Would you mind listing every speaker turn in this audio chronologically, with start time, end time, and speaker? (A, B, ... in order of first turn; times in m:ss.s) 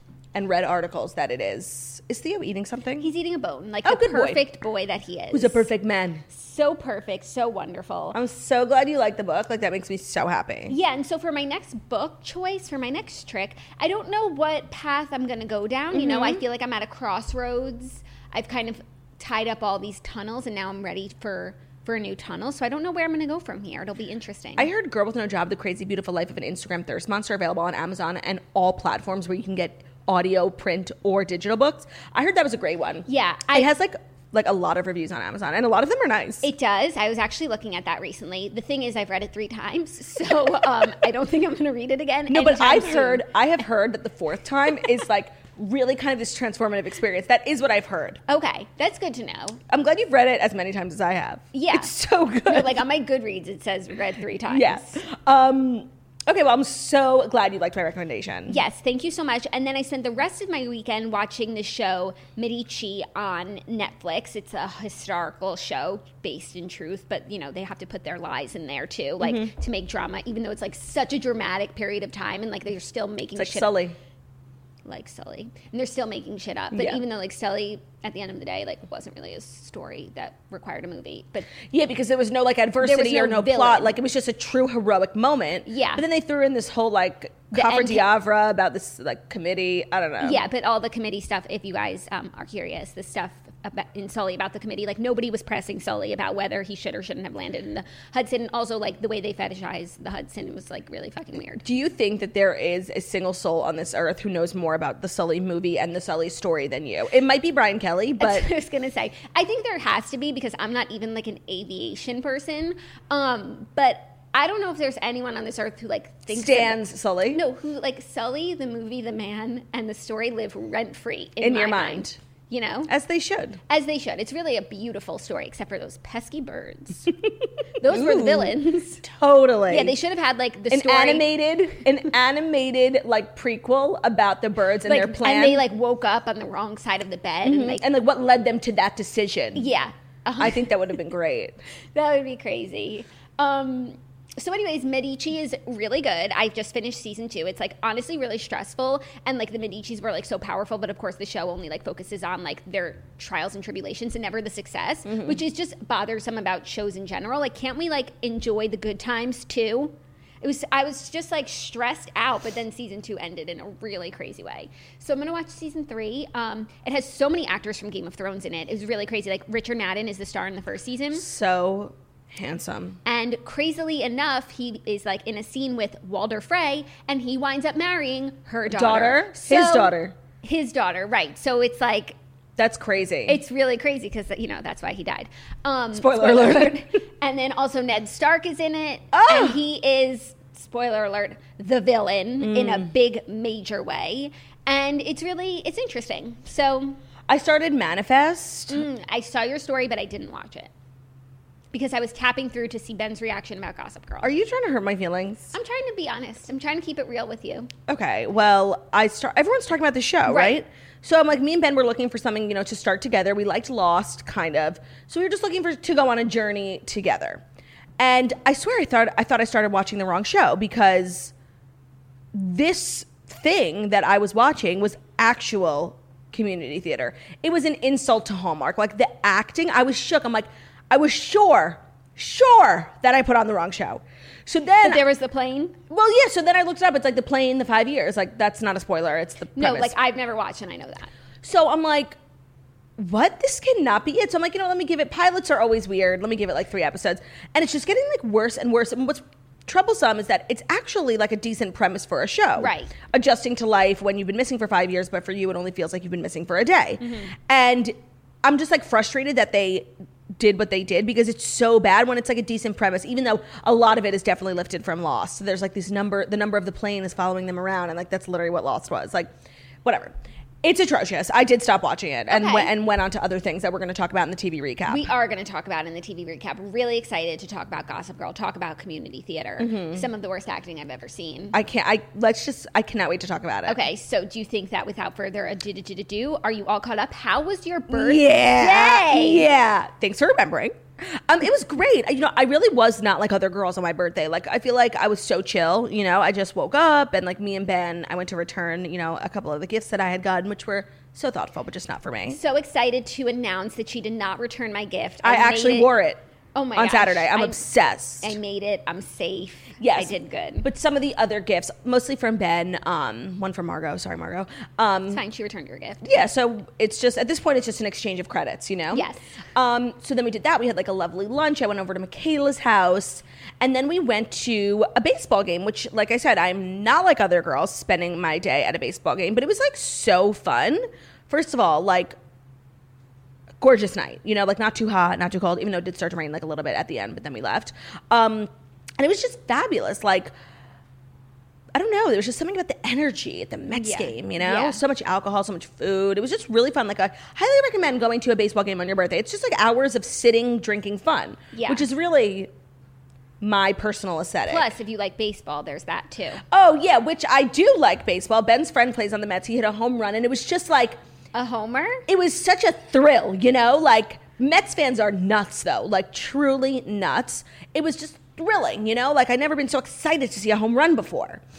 0:00.3-0:03.1 A
0:03.0-0:05.7 B
0:03.8-0:04.4 A
0:05.3-0:06.2 A
0:06.3-0:08.2 B
0:08.1-0:10.8 A
0:10.7-0:24.7 B
0:15.9-0:16.4 A
0:24.6-0:36.5 A
0:33.1-0:33.7 B
0:36.4-0:43.2 B
0:42.3-0:48.2 A
0:48.3-0:49.6 B
0:49.7-0:52.8 A
0:51.5-0:51.9 B
0:52.5-0:55.0 B
0:54.5-0:58.6 A
0:58.5-1:13.8 B
1:09.2-1:09.5 A
1:13.4-1:14.0 A
1:14.8-1:21.5 B
1:16.7-1:17.0 A
1:21.7-1:30.4 A
1:22.8-1:24.0 B
1:25.7-1:26.0 B
1:27.5-1:28.1 B
1:30.2-1:41.6 B
1:41.6-1:48.5 A
1:48.2-2:02.9 B
1:56.3-1:57.4 A
2:01.4-2:02.2 A
2:02.9-2:03.6 A
2:03.7-2:07.1 B
2:07.8-2:09.0 B
2:07.8-2:10.0 A
2:09.7-2:11.3 B
2:10.7-2:15.6 A
2:14.9-2:17.8 B
2:17.4-2:19.7 A
2:19.6-2:20.7 B
2:20.4-2:21.6 A
2:22.0-2:51.3 B
2:35.1-2:35.4 A
2:51.2-2:53.0 A
2:53.0-3:02.2 B
2:58.7-3:00.1 A
3:02.6-3:03.4 A
3:03.3-3:17.0 B
3:06.0-3:06.8 A
3:09.1-3:09.6 A
3:12.4-3:12.9 A
3:17.3-3:18.8 A
3:18.7-3:20.7 B
3:21.7-3:24.4 B
3:24.2-3:25.5 A
3:25.5-3:27.7 B
3:27.9-3:37.4 A
3:30.3-3:30.6 B
3:38.0-3:41.3 A
3:42.3-3:55.0 A
3:54.8-3:55.8 B
3:55.9-4:00.0 A
3:59.6-4:01.1 B
4:01.4-4:02.2 A
4:03.0-4:29.3 A
4:12.6-4:12.9 B
4:17.0-4:17.3 B
4:29.8-4:35.1 A
4:32.3-4:32.7 B
4:34.9-4:41.6 B
4:39.6-4:40.0 A
4:41.5-4:43.8 A
4:43.7-4:49.5 B
4:47.9-5:02.4 A
5:02.3-5:05.9 B
5:05.2-5:06.2 A
5:06.6-5:07.6 B
5:06.8-5:08.4 A
5:08.2-5:10.7 B
5:09.8-5:15.2 A
5:15.1-5:16.0 B
5:16.0-5:32.2 A
5:18.9-5:19.2 B
5:33.6-5:40.3 A
5:41.7-5:52.5 A
5:43.7-5:44.8 B
5:51.5-5:51.9 B
5:53.4-5:54.7 A
5:54.5-5:56.4 B
5:56.5-6:01.0 A
6:01.3-6:02.1 B
6:02.1-6:11.4 A